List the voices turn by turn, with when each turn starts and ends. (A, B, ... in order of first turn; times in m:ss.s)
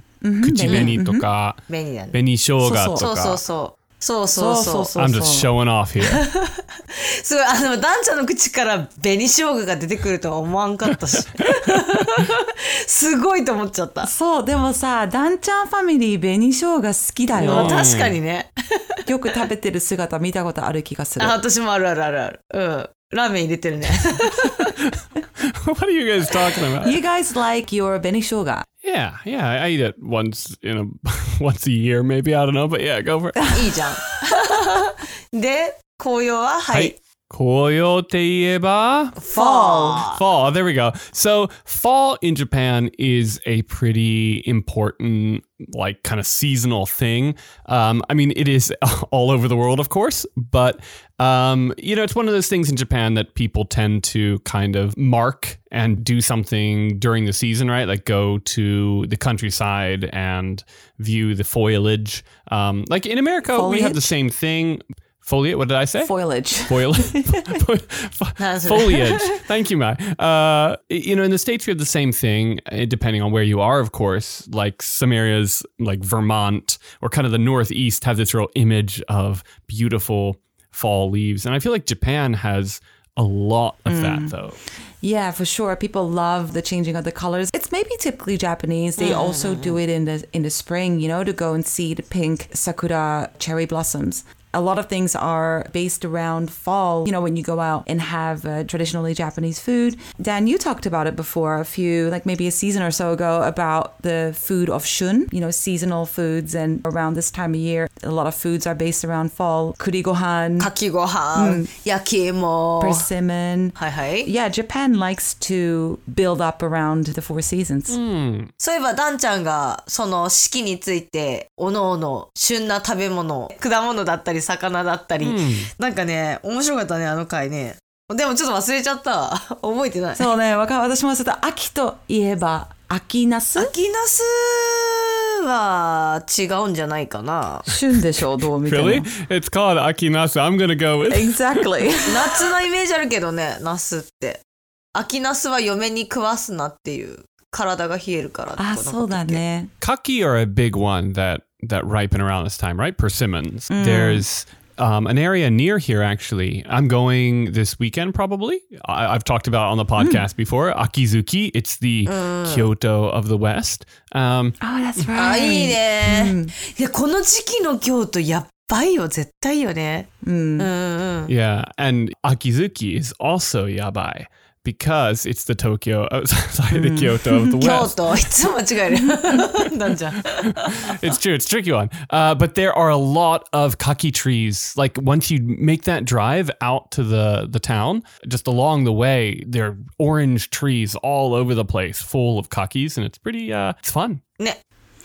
0:00.2-0:01.3 A
0:00.4-0:01.6 B
0:00.6-0:01.0 C
0:01.7-0:02.2 C
0:02.1-0:03.4 B
0:02.6-0:03.1 A
0:03.0-0:04.9 C
0:04.3-0:05.5 A
0:04.9-0:06.2 B
0:06.0-0:14.1 C
0:14.0-0:17.8 A
0:17.3-0:19.4 C
0:17.4-0:18.2 B
0:19.1-0:21.4 A
0:21.2-0:24.7 C
0:24.8-0:27.0 B
0:26.8-0:28.6 A
0:28.8-0:33.6 B
0:33.5-0:36.9 C
0:36.7-0:39.2 B
0:39.2-0:40.2 C
0:39.3-0:40.1 A
0:40.1-1:06.1 B
1:03.5-1:04.2 A
1:06.0-1:07.5 A
1:06.7-1:24.6 B
1:08.4-1:09.4 C
1:23.9-1:24.4 A
1:25.0-1:50.7 A
1:29.0-1:29.8 C
1:50.6-1:53.0 C
1:51.3-1:51.8 A
1:52.8-1:58.0 A
1:53.8-1:54.3 C
1:57.9-1:58.5 B
1:58.6-2:10.3 C
2:05.2-2:05.7 B
2:10.2-2:13.8 A
2:13.6-2:17.7 C
2:17.7-2:19.1 A
2:18.6-2:21.7 B
2:21.0-2:22.5 A
2:22.1-2:24.4 C
2:25.0-2:29.4 C
2:28.6-2:29.7 A
2:29.8-2:44.6 B
2:33.7-2:34.3 A
2:40.0-2:40.3 A
2:42.0-2:42.7 C
2:44.6-2:46.5 A
2:45.1-2:51.3 C
2:50.2-2:50.7 A
2:51.3-2:58.4 B
2:56.7-2:57.7 A
2:57.6-3:01.0 C
2:58.9-2:59.4 A
3:00.4-3:14.2 B